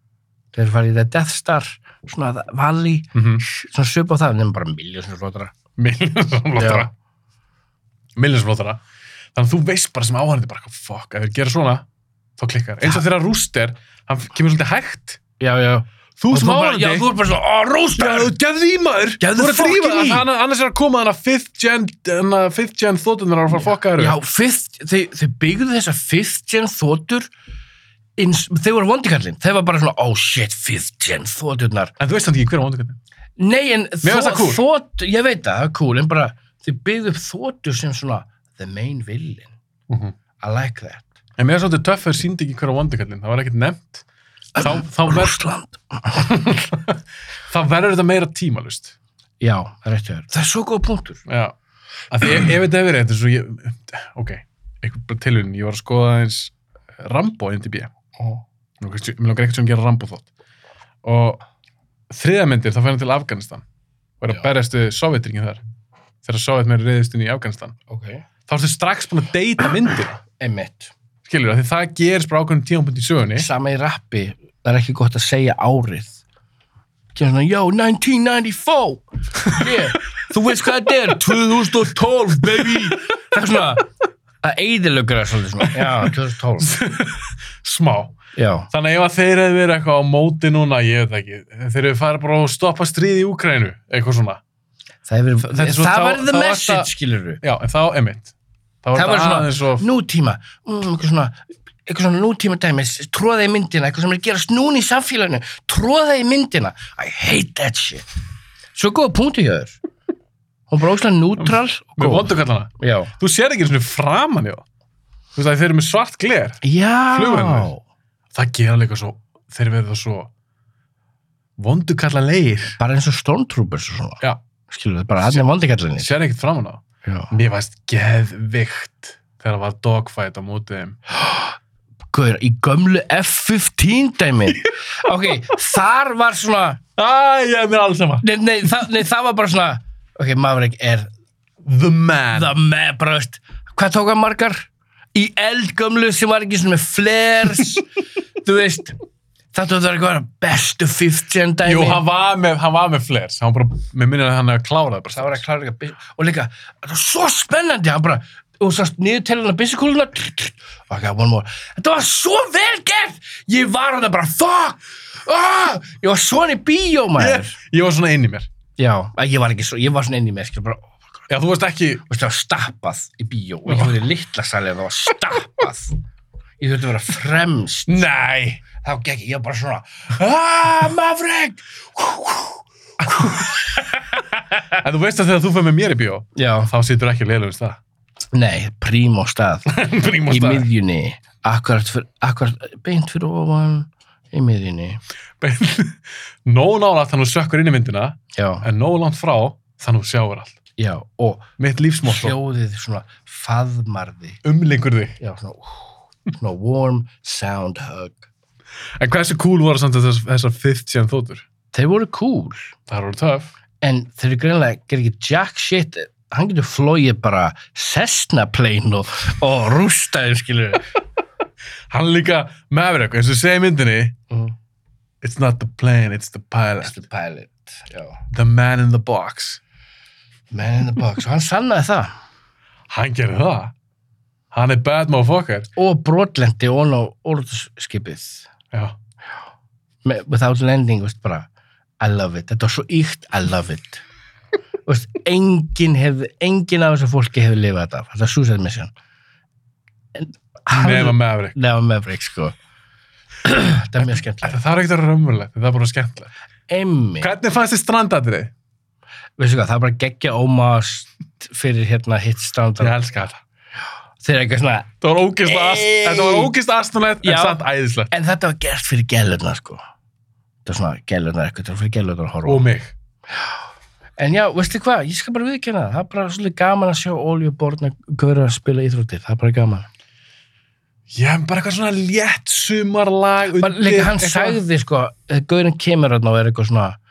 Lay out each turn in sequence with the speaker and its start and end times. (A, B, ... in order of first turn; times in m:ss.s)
0:00.5-0:05.5 A
0:03.1-0:03.4 B
0:05.8-0:06.9 B
0:06.6-0:06.9 A
0:08.2-0:08.8 B
0:09.4-0:11.8 B
0:12.4-0:15.2 B
0:15.4-0:18.3 A
0:16.2-0:17.1 B
0:18.0-0:24.2 B
0:19.2-0:20.3 A
0:23.6-0:27.3 A
0:28.2-0:31.9 A
0:32.0-0:33.0 B
0:33.4-0:39.5 A
0:34.0-0:34.6 B
0:39.9-0:40.1 B
0:40.4-0:41.1 A
0:41.4-0:44.0 B
0:44.6-0:45.4 B
0:44.6-0:46.3 A
0:46.1-0:49.0 B
0:49.4-0:51.2 A
0:51.3-0:51.6 B
0:52.1-0:57.9 B
0:58.1-0:58.4 A
0:58.8-1:00.3 B
1:01.0-1:01.4 B
1:02.1-1:03.6 B
1:04.2-1:05.6 B
1:06.2-1:07.8 B
1:07.9-1:08.3 A
1:08.5-1:10.2 B
1:10.4-1:10.9 A
1:11.2-1:13.5 B
1:13.4-1:16.2 A
1:17.1-1:23.9 A
1:19.4-1:19.7 B
1:22.4-1:23.0 B
1:24.4-1:26.7 A
1:25.8-1:26.1 B
1:26.6-1:28.2 B
1:28.4-1:28.7 A
1:28.7-1:34.4 B
1:35.1-1:37.4 A
1:35.5-1:39.8 B
1:39.0-1:48.0 A
1:48.7-1:49.8 A
1:50.7-1:53.1 A
1:51.4-1:54.6 B
1:55.4-1:57.7 B
1:56.6-1:57.8 A
1:58.3-2:00.3 B
2:01.6-2:02.8 B
2:02.8-2:06.1 A
2:06.0-2:11.0 B
2:07.0-2:07.3 A
2:11.1-2:11.6 A
2:12.1-2:16.8 A
2:17.0-2:18.3 B
2:18.2-2:21.1 A
2:21.6-2:22.5 B
2:22.3-2:27.9 A
2:28.4-2:29.0 A
2:29.5-2:32.0 A
2:31.6-2:35.4 B
2:35.1-2:47.6 A
2:47.2-2:48.5 B
2:48.8-2:51.0 A
2:51.3-2:52.1 B
2:52.1-2:56.0 A
2:56.6-2:58.0 A
2:57.9-2:58.6 B
2:58.7-3:03.5 A
3:03.0-3:07.8 B
3:06.4-3:06.7 A
3:08.3-3:09.7 A
3:09.7-3:10.7 B
3:10.3-3:15.0 A
3:15.4-3:20.6 B
3:18.3-3:18.7 A
3:20.8-3:21.5 A
3:21.6-3:22.4 B
3:22.0-3:24.4 A
3:24.4-3:25.2 B
3:25.2-3:28.3 A
3:29.0-3:31.4 B
3:31.7-3:32.7 A
3:32.9-3:33.5 B
3:33.8-3:40.9 A
3:41.9-3:44.2 B
3:44.3-3:44.6 A
3:45.2-3:47.0 B
3:46.8-3:48.2 A
3:48.3-3:49.6 B
3:50.5-3:52.1 A
3:52.9-3:53.7 B
3:54.5-3:55.7 B
3:55.8-3:58.5 A
4:00.0-4:01.5 A
4:02.0-4:04.0 A
4:04.9-4:08.9 A
4:10.1-4:12.6 A
4:10.7-4:11.6 B
4:13.4-4:14.6 A
4:14.4-4:16.3 B
4:16.7-4:17.3 A
4:17.2-4:18.5 B
4:19.4-4:23.0 A
4:22.8-4:23.4 B
4:24.2-4:24.9 A
4:25.0-4:28.1 B
4:25.4-4:26.5 A
4:27.2-4:29.8 A
4:30.6-4:32.6 A
4:32.4-4:33.0 B
4:34.2-4:39.9 A
4:41.1-4:44.6 B
4:43.6-4:47.0 A